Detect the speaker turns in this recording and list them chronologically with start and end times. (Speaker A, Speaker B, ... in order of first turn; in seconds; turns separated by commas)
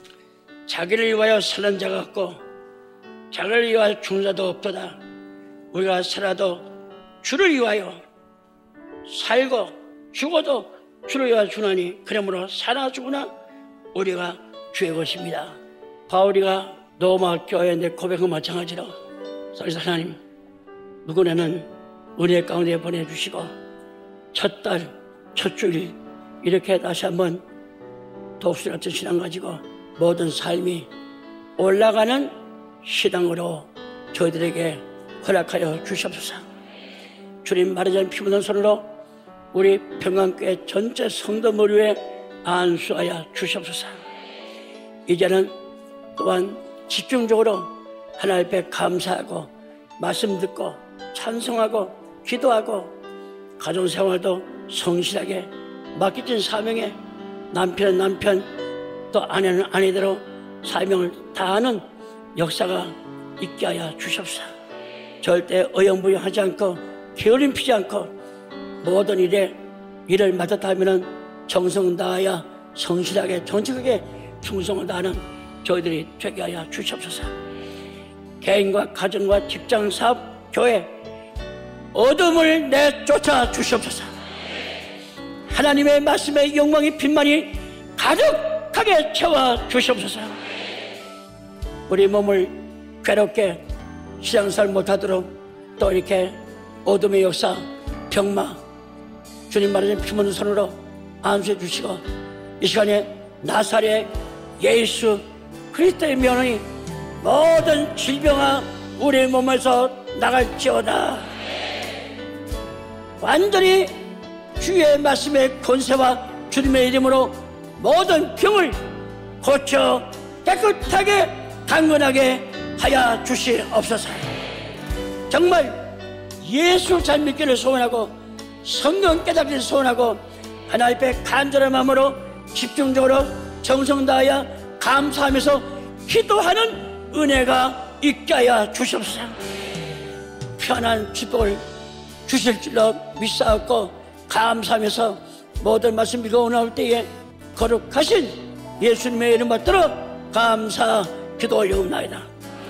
Speaker A: 0.7-2.4, Speaker A: 3.3-5.0, Speaker A: 5.7-6.7, Speaker A: 7.2-8.0, Speaker A: 9.1-13.3, Speaker A: 13.9-18.9, Speaker A: 19.5-20.2, Speaker A: 21.0-23.5, Speaker A: 24.3-27.4, Speaker A: 28.4-30.9, Speaker A: 31.6-36.5, Speaker A: 37.4-38.9, Speaker A: 39.5-44.0, Speaker A: 45.1-45.5, Speaker A: 46.1-53.0, Speaker A: 53.6-57.0, Speaker A: 57.5-58.5, Speaker A: 59.1-61.8, Speaker A: 62.4-64.5, Speaker A: 65.2-68.1, Speaker A: 68.8-77.3, Speaker A: 78.4-80.9, Speaker A: 81.9-84.1, Speaker A: 85.5-90.4, Speaker A: 91.9-93.6, Speaker A: 94.2-98.6, Speaker A: 99.5-102.0, Speaker A: 102.6-106.7, Speaker A: 107.2-111.3, Speaker A: 113.2-113.9, Speaker A: 114.6-118.8, Speaker A: 119.4-124.2, Speaker A: 125.3-139.4, Speaker A: 140.6-141.6, Speaker A: 142.3-152.3